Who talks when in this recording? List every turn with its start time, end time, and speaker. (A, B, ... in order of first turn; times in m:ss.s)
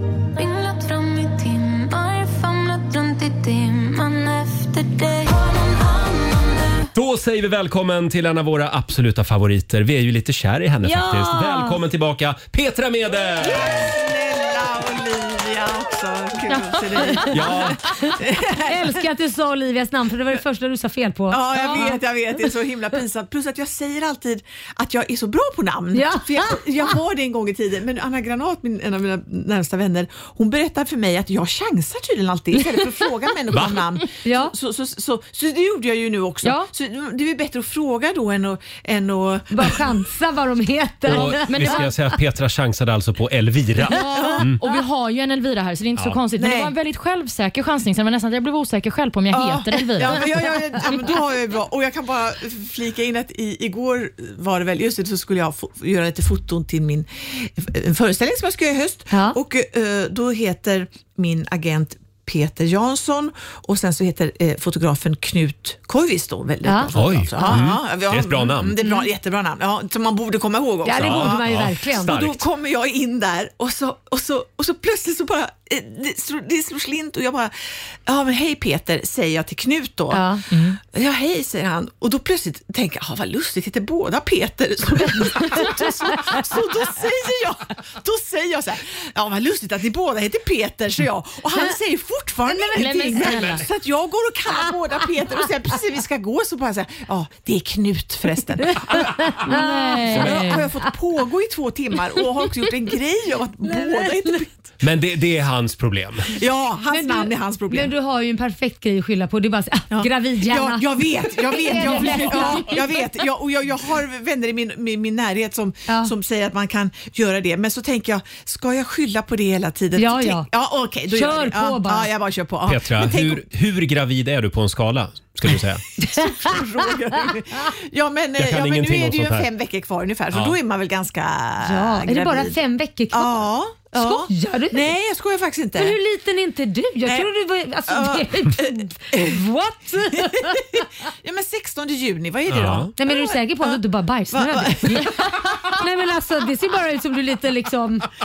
0:00.4-0:06.9 A
0:06.9-0:13.9 B
0:10.8-0:11.8 C
0:13.4-0:19.0 D
0:16.7-0:21.9 C
0:17.3-0:17.8 B
0:21.3-0:39.8 D
0:21.5-0:21.9 E
0:25.9-0:26.9 C
0:33.5-0:33.9 B
0:34.2-0:34.5 C
0:36.4-0:36.7 E
0:39.5-0:41.8 C
0:41.0-0:44.6 B
0:41.1-0:41.9 E
0:43.9-0:50.2 E
0:46.3-0:46.7 D
0:49.3-1:44.7 D
0:59.1-0:59.4 C
1:06.6-1:07.6 C
1:06.9-1:08.8 B
1:08.8-1:09.1 C
1:10.8-1:12.2 C
1:11.0-1:12.4 B
1:20.1-1:20.4 C
1:32.5-1:33.6 E
1:38.9-1:39.3 B
1:39.0-1:40.6 C
1:39.4-1:40.6 E
1:43.6-1:44.3 C
1:44.8-1:46.3 B
1:46.4-1:47.9 D
1:46.9-1:53.0 C
1:49.9-2:03.4 D
1:55.9-1:56.1 C
2:00.0-2:00.5 C
2:01.1-2:02.1 C
2:02.7-2:05.8 B
2:06.0-2:12.5 D
2:08.4-2:09.5 B
2:10.3-2:10.6 B
2:11.6-2:14.9 C
2:13.1-2:15.9 D
2:15.8-2:20.8 C
2:17.9-2:19.4 D
2:19.9-2:23.8 D
2:22.5-2:22.9 B
2:23.0-2:28.1 C
2:24.3-2:25.8 D